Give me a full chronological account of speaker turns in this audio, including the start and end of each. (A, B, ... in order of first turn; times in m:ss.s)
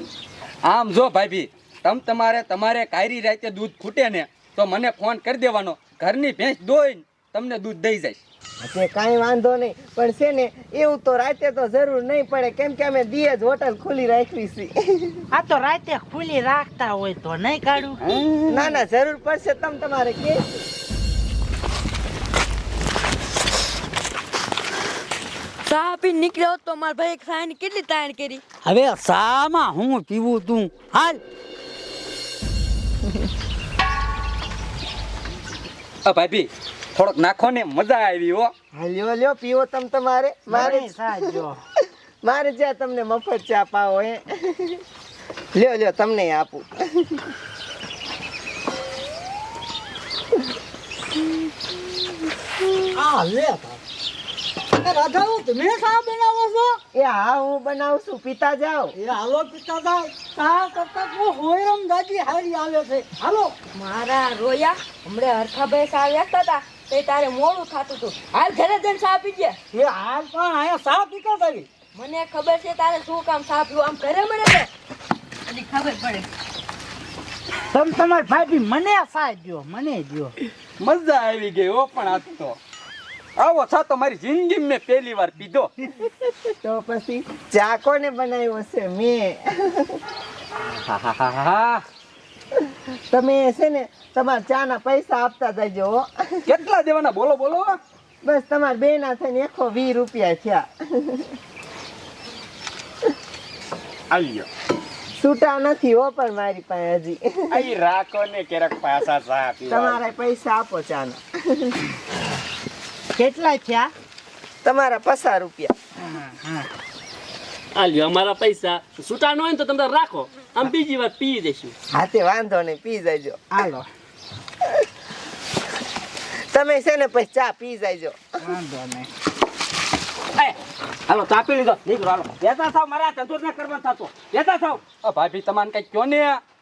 0:00.6-0:08.2 A
0:08.6-0:15.2 B
0:15.3-0:18.0 C
0:18.1-0:18.7 A
0:18.5-0:20.6 B
0:25.7-0:28.4 D
0:28.6-0:31.2 C
0:36.0-0:38.5 A
0:38.8-0:41.0 B
0:40.5-0:41.6 C
0:42.2-0:44.8 B
0:45.6-0:47.2 B
0:53.0-0:53.8 C
0:54.8-0:56.8 C
0:57.0-0:59.0 B
0:59.0-1:03.5 C
1:03.7-1:09.6 D
1:09.7-1:11.7 C
1:11.9-1:14.7 D
1:15.5-1:16.3 D
1:17.7-1:20.4 C
1:20.8-1:22.6 A
1:23.4-1:25.7 A
1:26.6-1:30.0 B
1:30.9-1:31.8 A
1:33.1-1:36.4 B
1:36.5-1:37.8 A
1:38.2-1:41.3 B
1:44.1-1:44.5 A
1:45.2-1:47.7 B
1:47.5-1:50.0 A
1:49.7-1:51.8 B
1:53.2-1:53.9 C
1:54.6-1:55.7 B
1:56.1-1:56.7 C
1:58.5-1:59.1 E
2:00.2-2:01.7 E
2:01.9-2:03.4 B
2:03.5-2:03.9 C
2:06.5-2:08.4 B
2:08.4-2:09.1 C
2:11.1-2:14.8 F
2:15.0-2:16.4 A